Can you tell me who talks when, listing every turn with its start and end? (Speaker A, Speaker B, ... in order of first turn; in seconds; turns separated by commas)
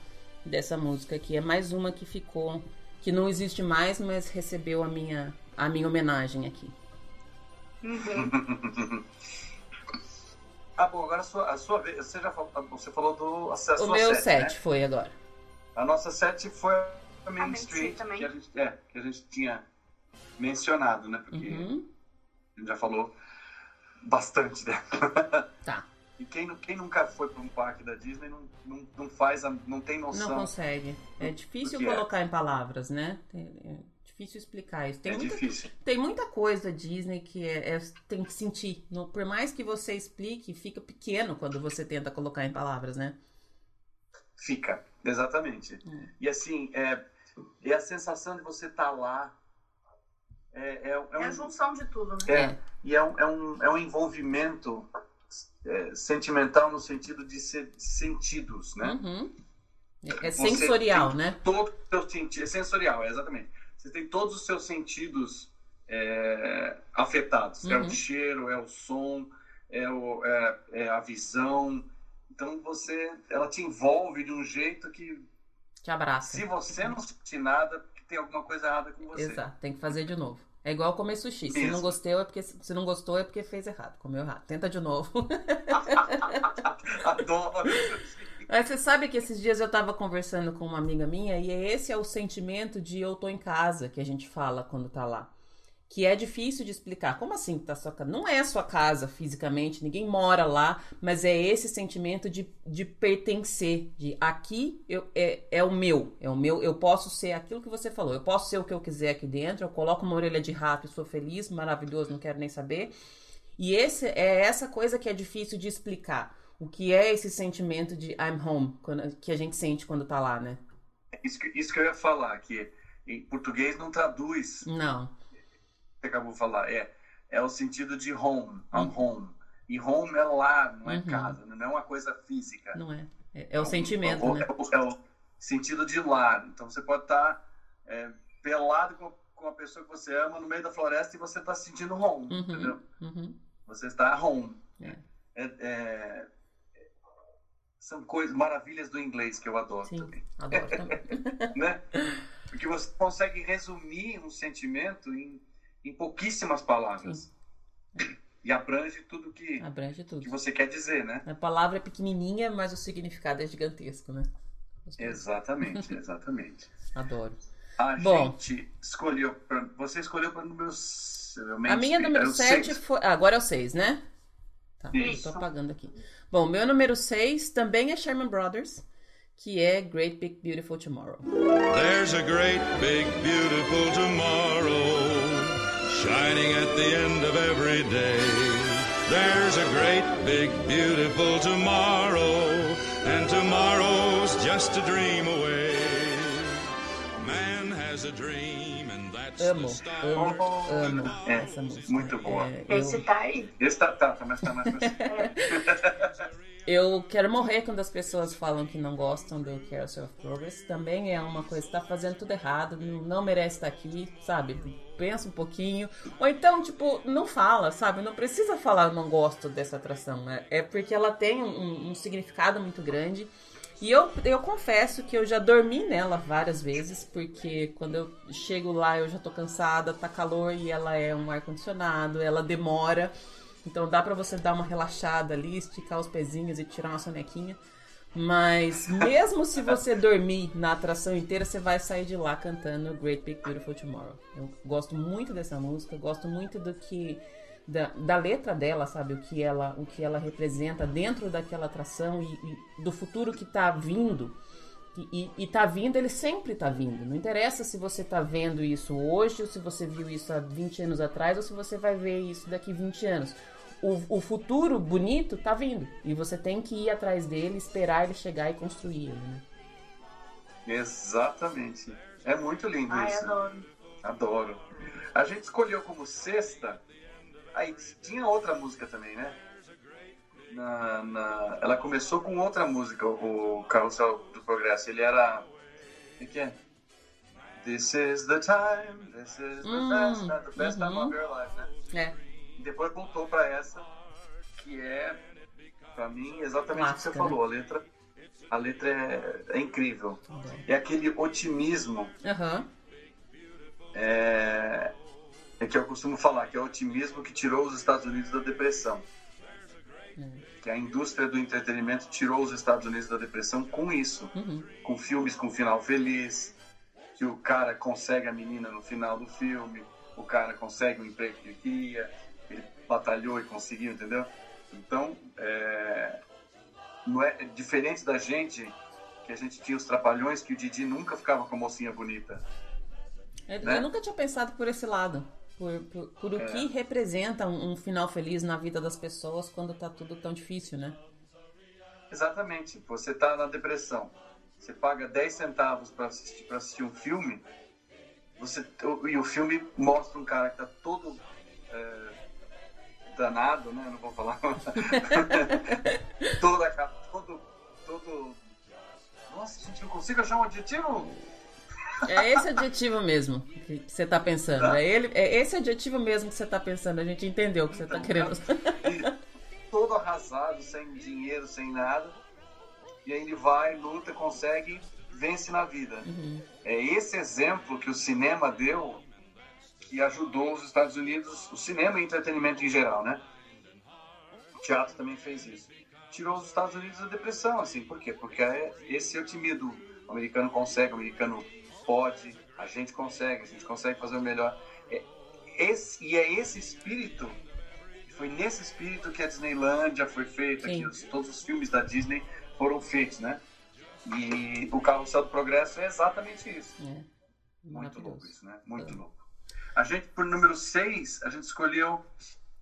Speaker A: 0.4-6.7, Speaker B: 7.8-8.3, Speaker C: 8.1-9.0, Speaker C: 10.8-14.5, Speaker A: 13.8-15.1, Speaker C: 15.8-19.6, Speaker B: 17.4-18.3, Speaker C: 20.4-21.7, Speaker A: 21.3-21.9, Speaker C: 22.6-23.1, Speaker C: 24.0-25.4, Speaker C: 26.2-30.5, Speaker A: 30.1-43.1, Speaker C: 31.2-32.0, Speaker C: 35.0-35.7, Speaker C: 44.4-47.0, Speaker C: 47.6-49.3, Speaker C: 50.5-51.5, Speaker B: 51.2-52.3, Speaker C: 52.2-59.0, Speaker A: 52.3-52.6, Speaker A: 58.8-59.3, Speaker A: 60.0-61.4, Speaker C: 60.2-75.2, Speaker A: 67.6-68.0, Speaker A: 75.8-76.9, Speaker C: 76.3-79.4, Speaker A: 79.1-86.5, Speaker C: 81.5-81.9, Speaker C: 85.8-88.3, Speaker A: 88.5-95.3, Speaker A: 95.9-112.9, Speaker A: 113.6-120.6, Speaker C: 121.2-124.7, Speaker A: 124.6-125.1, Speaker C: 126.0-132.8, Speaker A: 130.8-131.3, Speaker A: 132.7-134.5, Speaker C: 133.6-142.8, Speaker A: 142.3-143.3, Speaker C: 143.7-144.6, Speaker C: 145.3-146.3, Speaker C: 147.8-150.9, Speaker A: 149.9-151.5, Speaker C: 151.5-151.8, Speaker C: 152.5-157.3, Speaker C: 158.4-159.6, Speaker A: 159.6-160.3, Speaker C: 160.2-161.2, Speaker A: 161.2-164.3, Speaker A: 164.9-165.9, Speaker C: 165.0-166.7, Speaker A: 166.9-167.4, Speaker C: 167.8-172.8, Speaker A: 168.0-168.3, Speaker A: 171.7-174.0, Speaker A: 174.8-178.8, Speaker B: 175.0-175.4, Speaker A: 179.4-181.2, Speaker D: 181.7-196.6, Speaker D: 197.2-202.0, Speaker A: 199.4-203.0, Speaker C: 200.1-202.5, Speaker B: 202.7-203.5, Speaker C: 203.6-206.1, Speaker A: 204.7-205.3, Speaker B: 205.1-205.3, Speaker A: 206.7-233.1, Speaker A: 233.6-237.6, Speaker A: 238.1-254.3, Speaker A: 254.9-269.4, Speaker C: 270.6-273.3, Speaker B: 272.9-273.7, Speaker C: 274.0-276.8, Speaker C: 277.5-279.4, Speaker C: 280.5-285.4, Speaker C: 286.2-286.6, Speaker C: 287.6-291.7, Speaker A: 289.6-291.1, Speaker A: 291.9-292.1, Speaker C: 292.6-293.9, Speaker C: 294.6-295.2, Speaker C: 295.9-297.8, Speaker A: 296.7-297.4, Speaker C: 298.5-302.1, Speaker A: 300.3-300.6, Speaker A: 302.2-302.7, Speaker C: 303.9-304.9, Speaker C: 305.6-309.1, Speaker A: 310.2-310.4, Speaker C: 310.6-316.6, Speaker A: 314.3-314.7, Speaker C: 317.1-326.2, Speaker C: 327.0-332.4, Speaker A: 333.5-341.0, Speaker C: 336.4-336.7, Speaker C: 342.1-347.4, Speaker C: 348.4-352.1, Speaker C: 353.1-355.7, Speaker A: 354.9-356.3, Speaker C: 356.4-358.4, Speaker C: 359.3-361.1, Speaker A: 362.0-368.9, Speaker C: 362.0-362.4, Speaker C: 367.7-369.1, Speaker C: 369.7-372.2, Speaker C: 373.0-376.1, Speaker A: 376.0-376.4, Speaker C: 376.6-379.0, Speaker C: 379.8-383.2, Speaker C: 384.6-397.4, Speaker C: 398.1-403.4, Speaker A: 400.6-400.9, Speaker C: 404.0-406.8, Speaker A: 406.8-407.1, Speaker A: 407.6-409.0, Speaker C: 407.7-409.1, Speaker C: 409.7-412.1